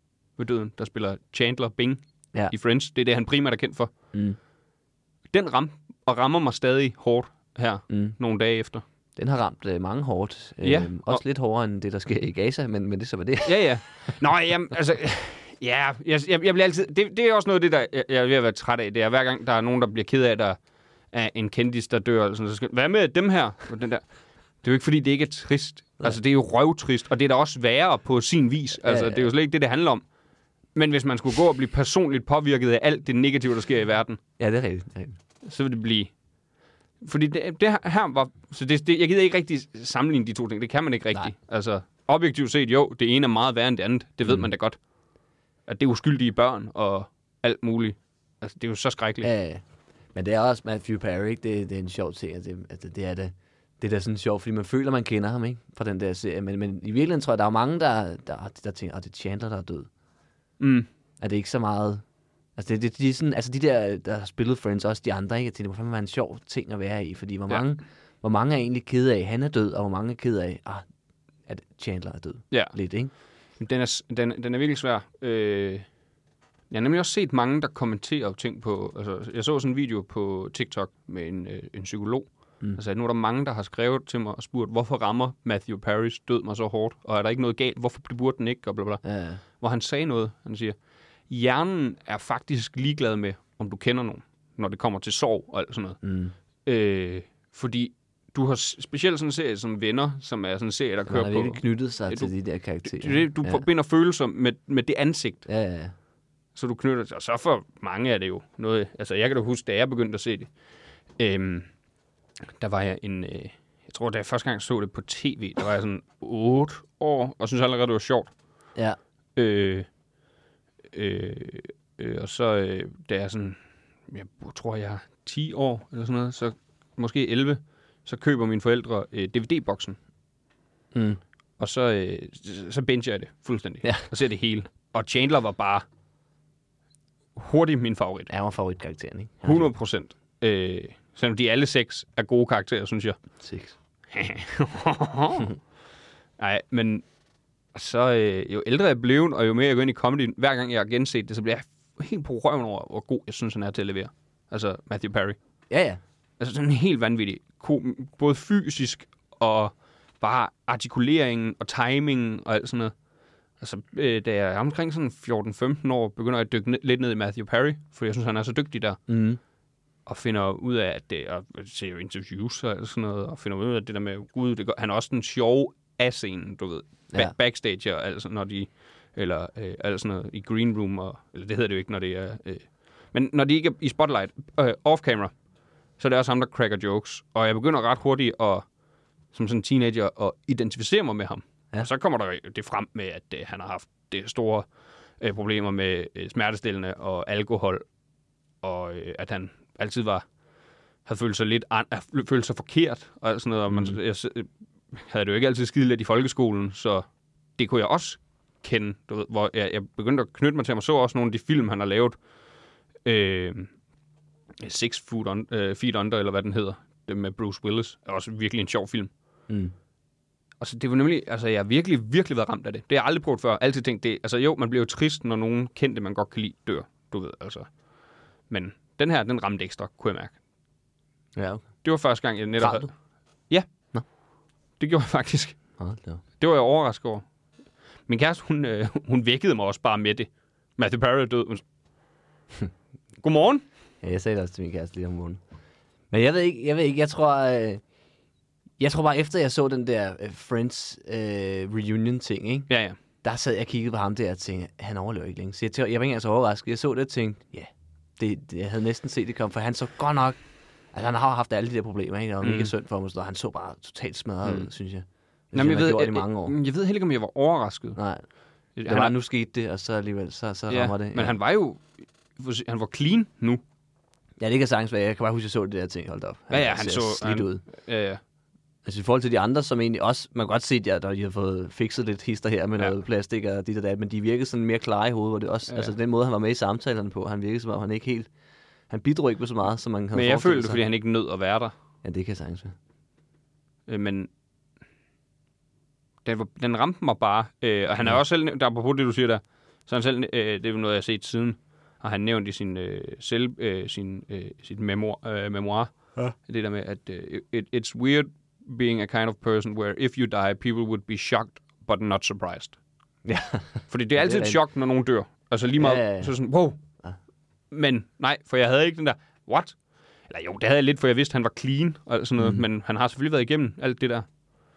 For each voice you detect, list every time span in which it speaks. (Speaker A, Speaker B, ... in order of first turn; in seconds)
Speaker A: 0.4-3.9, 5.3-8.8, 10.6-11.2, 13.4-20.6, 21.1-24.1, 24.6-30.0, 30.7-34.2, 35.4-36.1, 37.0-44.8, 45.7-49.3, 60.6-60.9, 72.5-72.8, 73.6-75.9, 76.7-89.0, 89.6-90.7, 91.3-96.0, 96.6-105.5, 106.5-110.5, 111.2-111.7, 112.6-118.3, 119.3-119.9, 120.9-130.0, 131.6-135.8, 137.3-138.3, 139.4-143.2, 144.1-145.5, 146.4-147.0, 147.7-155.4, 156.4-162.9, 163.6-169.0, 170.1-185.3, 186.0-188.7, 189.3-194.7, 195.2-197.8, 198.6-200.2, 201.0-212.2, 213.0-213.7, 214.6-219.1, 220.6-227.7, 228.5-230.4, 231.8-232.9, 234.8-235.6, 236.4-237.2, 238.1-241.6, 243.2-243.6, 252.7-253.0, 262.4-262.7, 264.4-264.7, 265.5-268.0, 268.8-269.1, 270.7-273.6, 276.5-278.2, 290.1-291.7, 293.9-294.3, 296.2-312.8, 313.9-316.8, 317.7-319.8, 320.3-324.2
Speaker B: 4.1-4.4, 7.9-8.2, 9.2-13.7, 28.8-29.3, 34.4-35.2, 44.2-44.5, 49.2-49.6, 50.1-59.9, 61.2-62.0, 62.5-70.8, 71.5-73.1, 89.0-89.4, 96.0-96.3, 101.1-103.6, 105.5-105.9, 130.9-131.2, 138.3-139.7, 143.4-143.7, 155.7-156.0, 169.1-169.4, 231.3-231.8, 232.6-232.9, 235.8-236.2, 244.0-245.4, 246.1-247.8, 248.8-252.7, 253.2-260.4, 260.9-266.5, 267.9-268.2, 268.8-271.4, 274.4-277.6, 278.8-288.3, 288.9-290.8, 292.0-292.7, 313.2-314.6, 315.8-316.3, 322.4-322.6